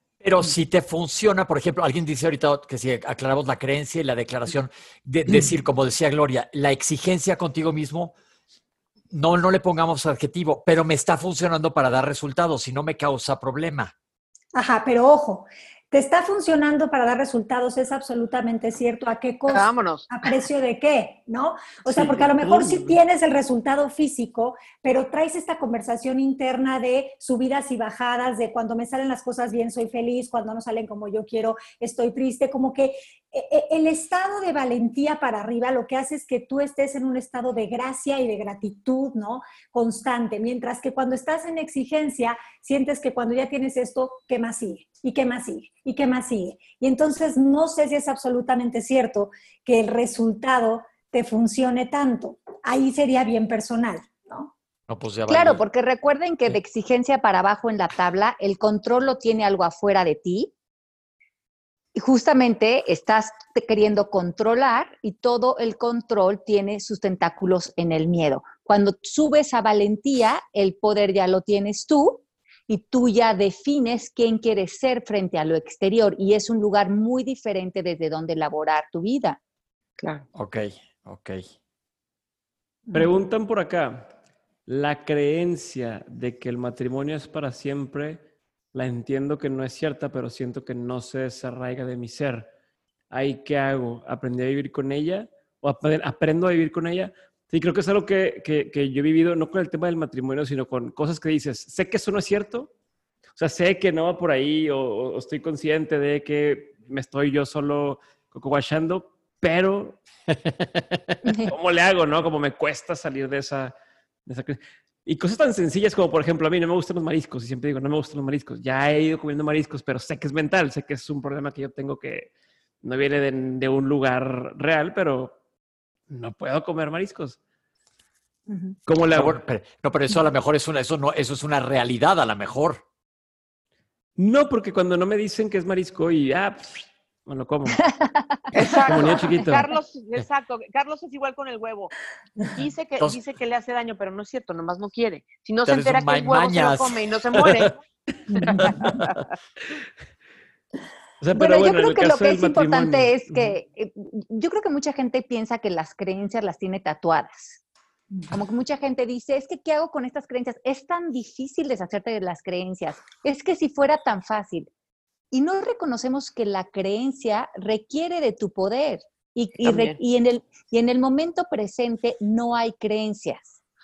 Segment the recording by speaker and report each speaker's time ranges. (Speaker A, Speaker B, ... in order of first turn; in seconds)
Speaker A: 0.2-8.1, 9.1-13.9, 54.9-55.6, 80.3-81.4, 129.1-132.8, 145.6-147.7, 148.6-149.1
Speaker B: 14.5-54.5, 148.3-149.0
Speaker C: 19.5-20.4, 22.1-22.8, 80.0-80.2, 138.5-141.9, 142.5-147.8, 148.3-149.2, 169.6-170.0
Speaker D: 55.3-60.5, 61.9-79.4, 138.0-138.2, 151.3-157.6, 158.3-164.7, 165.3-173.5
Speaker E: 82.9-84.1, 84.7-92.5, 93.1-102.7, 103.3-110.0, 111.5-113.7, 114.2-122.3, 122.8-125.4, 126.1-127.4, 128.8-129.4, 134.2-137.9, 138.9-139.7, 151.2-153.5